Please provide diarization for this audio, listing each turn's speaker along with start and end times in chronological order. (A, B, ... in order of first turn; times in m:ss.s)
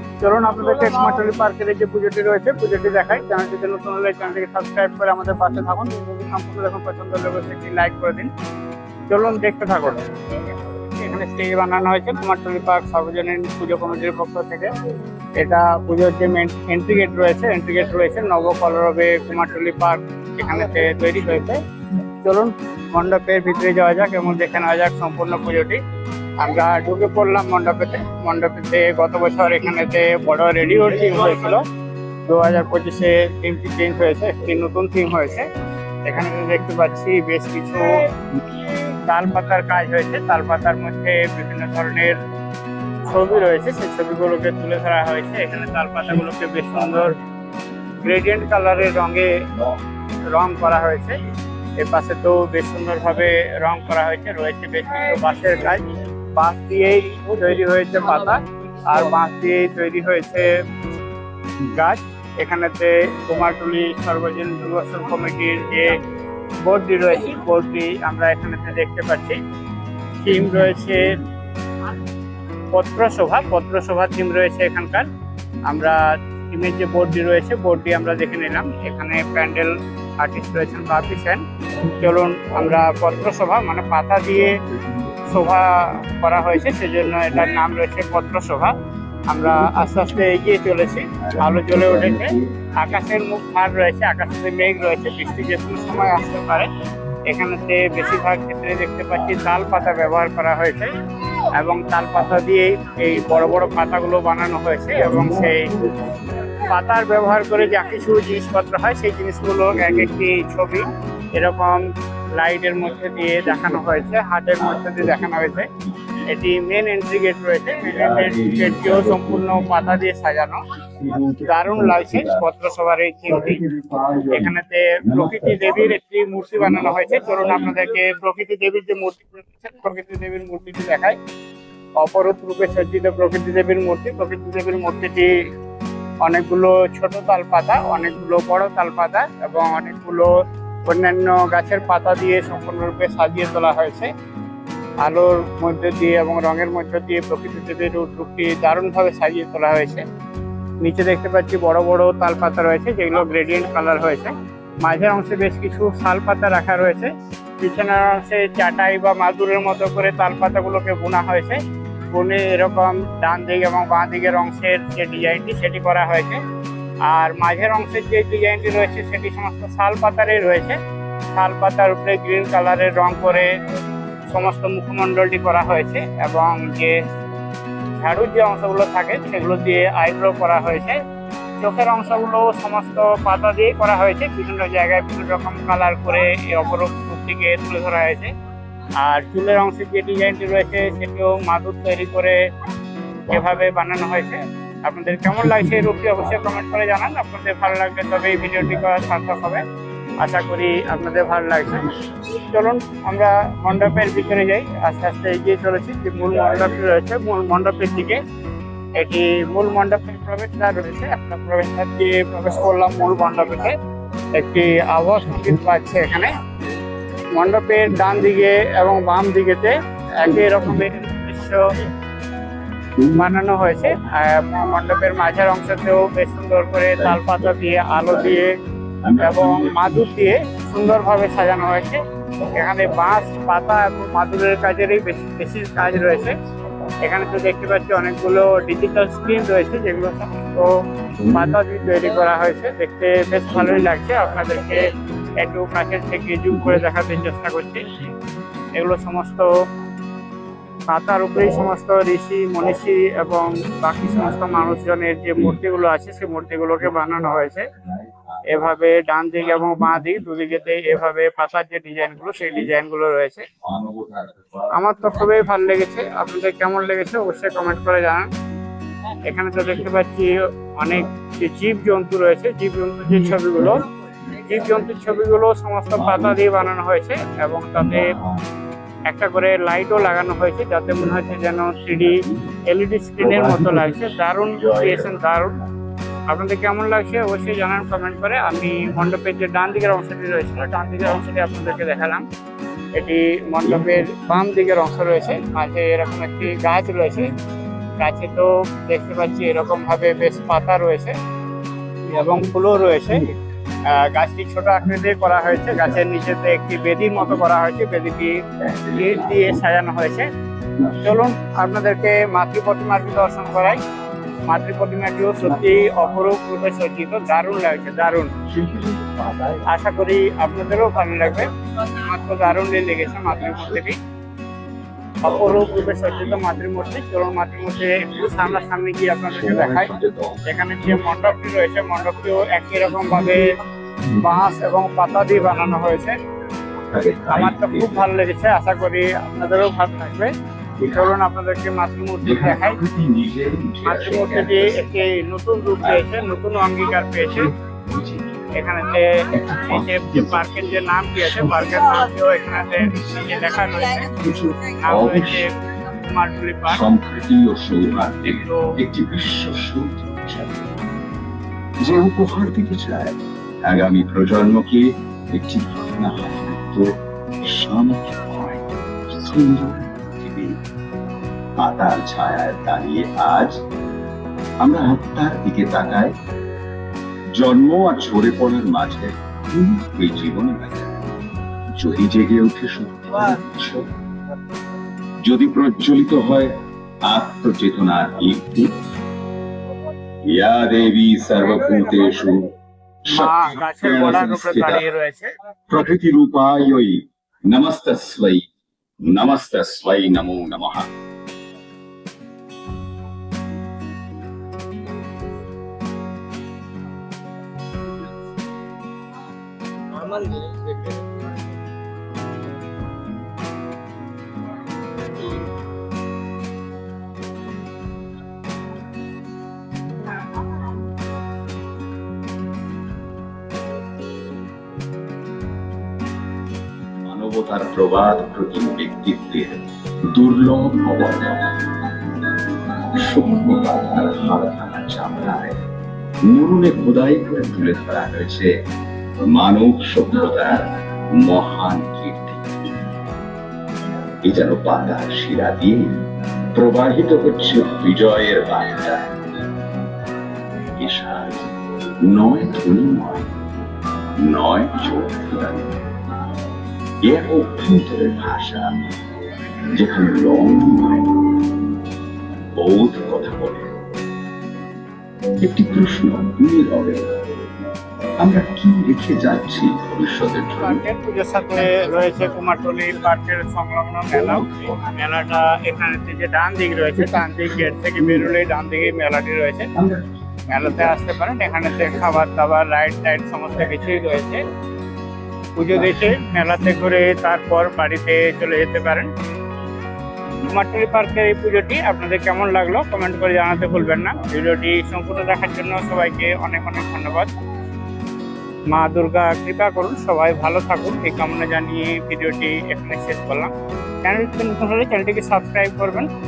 0:00.2-0:08.3 A
0:09.1-0:14.7 A
0:15.4-0:21.6 A
0:22.2-0:25.8 A
0:26.4-0:31.6 A
0:32.3-0:35.5 A
0:36.1-0:38.1 A
0:38.7-0:42.2 A
0:43.1-0:47.2 A
0:48.0-0:49.4 A
0:50.3-0:51.2 A
0:51.8-1:00.5 A
1:01.7-1:06.0 A
1:06.6-1:09.4 A
1:10.2-1:11.2 A
1:12.7-1:15.1 A
1:15.7-1:16.0 A
1:16.5-1:24.6 A
1:21.9-1:22.8 B
1:24.3-1:25.5 B
1:25.3-1:28.8 A
1:26.5-1:27.4 B
1:29.3-1:36.7 A
1:29.4-1:30.1 B
1:31.2-1:32.5 B
1:37.3-1:45.7 A
1:44.9-1:46.6 B
1:46.6-1:51.8 A
1:49.7-1:50.1 B
1:52.4-1:55.7 A
1:53.5-1:53.9 B
1:54.6-1:56.3 B
1:56.3-2:00.6 A
1:57.8-2:00.0 B
2:00.8-2:02.5 B
2:01.4-2:03.6 A
2:03.3-2:06.0 B
2:04.3-2:11.2 A
2:06.5-2:07.8 B
2:12.0-2:15.3 A
2:16.2-2:20.3 A
2:20.9-2:24.1 A
2:25.0-2:30.0 A
2:30.8-2:41.6 A
2:42.1-2:46.4 A
2:47.1-2:50.8 A
2:51.3-2:53.5 A
2:54.3-2:57.0 A
2:58.0-3:01.0 A
3:01.6-3:08.3 A
3:09.0-3:12.4 A
3:13.3-3:13.7 B
3:13.3-3:19.6 A
3:15.3-3:16.6 B
3:18.6-3:19.1 B
3:20.2-3:28.2 A
3:21.6-3:22.4 B
3:23.7-3:24.4 B
3:26.2-3:27.0 B
3:29.0-3:33.8 A
3:32.5-3:33.5 B
3:34.3-3:36.4 A
3:35.3-3:35.6 B
3:36.4-3:36.7 B
3:37.3-3:41.6 A
3:37.9-3:38.5 B
3:40.2-3:40.9 B
3:43.0-3:43.5 B
3:43.2-3:48.6 A
3:47.0-3:48.5 B
3:49.0-3:50.3 B
3:49.2-3:52.0 A
3:52.5-3:53.0 B
3:52.5-3:56.4 A
3:55.8-3:56.3 B
3:57.0-4:00.7 A
4:01.2-4:01.6 B
4:01.3-4:04.8 A
4:03.5-4:04.1 B
4:05.4-4:07.9 A
4:06.5-4:07.0 B
4:08.8-4:09.5 A
4:10.9-4:17.7 A
4:14.0-4:14.8 B
4:15.4-4:15.6 B
4:16.8-4:18.8 B
4:18.5-4:23.4 A
4:19.8-4:20.8 B
4:22.4-4:22.7 B
4:23.6-4:25.7 B
4:24.7-4:28.3 A
4:29.2-4:33.8 A
4:33.1-4:35.3 B
4:34.4-4:38.1 A
4:36.0-4:36.7 B
4:37.8-4:38.4 B
4:39.1-4:45.6 A
4:40.9-4:42.6 B
4:43.2-4:45.2 B
4:46.3-4:52.2 A
4:53.0-4:57.3 A
4:53.6-4:54.1 B
4:58.0-5:01.2 A
5:02.1-5:03.3 A
5:03.9-5:08.4 A
5:05.5-5:07.5 B
5:08.6-5:09.6 B
5:09.0-5:10.3 A
5:10.8-5:11.2 B
5:11.0-5:13.8 A
5:14.5-5:18.3 A
5:15.4-5:16.3 B
5:18.5-5:19.7 B
5:19.7-5:24.0 A
5:23.1-5:23.9 B
5:25.2-5:29.9 A
5:25.2-5:26.8 B
5:27.8-5:28.7 B
5:29.3-5:31.2 B
5:30.5-5:33.5 A
5:34.2-5:36.2 A
5:36.8-5:38.1 B
5:37.3-5:40.3 A
5:40.8-5:41.2 B
5:40.9-5:42.8 A
5:42.2-5:44.9 B
5:43.8-5:47.5 A
5:45.8-5:46.1 B
5:47.2-5:48.5 B
5:48.5-5:54.1 A
5:49.3-5:52.1 B
5:52.8-5:53.4 B
5:54.0-5:55.4 B
5:54.8-5:56.8 A
5:56.7-6:00.7 B
5:58.2-5:58.7 A
6:01.8-6:06.9 B
6:07.4-6:10.5 B
6:11.6-6:13.6 B
6:14.6-6:16.1 B
6:17.4-6:21.0 B
6:21.8-6:23.9 B
6:25.2-6:26.5 B
6:27.0-6:28.7 B
6:30.3-6:32.5 B
6:31.4-6:32.2 A
6:33.0-6:34.9 B
6:33.1-6:35.3 A
6:35.7-6:38.5 B
6:39.0-6:40.9 B
7:07.1-7:15.6 B
7:16.2-7:18.5 B
7:19.3-7:22.8 B
7:24.2-7:29.5 B
7:30.5-7:33.3 B
7:34.2-7:36.4 B
7:37.0-7:41.7 B
7:42.5-7:43.8 B
7:45.4-7:47.4 B
7:48.2-7:50.8 B
7:50.6-7:59.7 A
7:54.1-7:54.9 B
7:57.0-7:58.4 B
7:59.8-8:02.2 B
8:00.5-8:04.5 A
8:03.6-8:04.3 B
8:05.6-8:09.1 A
8:05.7-8:06.9 B
8:10.4-8:17.3 A
8:18.7-8:23.5 A
8:24.0-8:26.1 A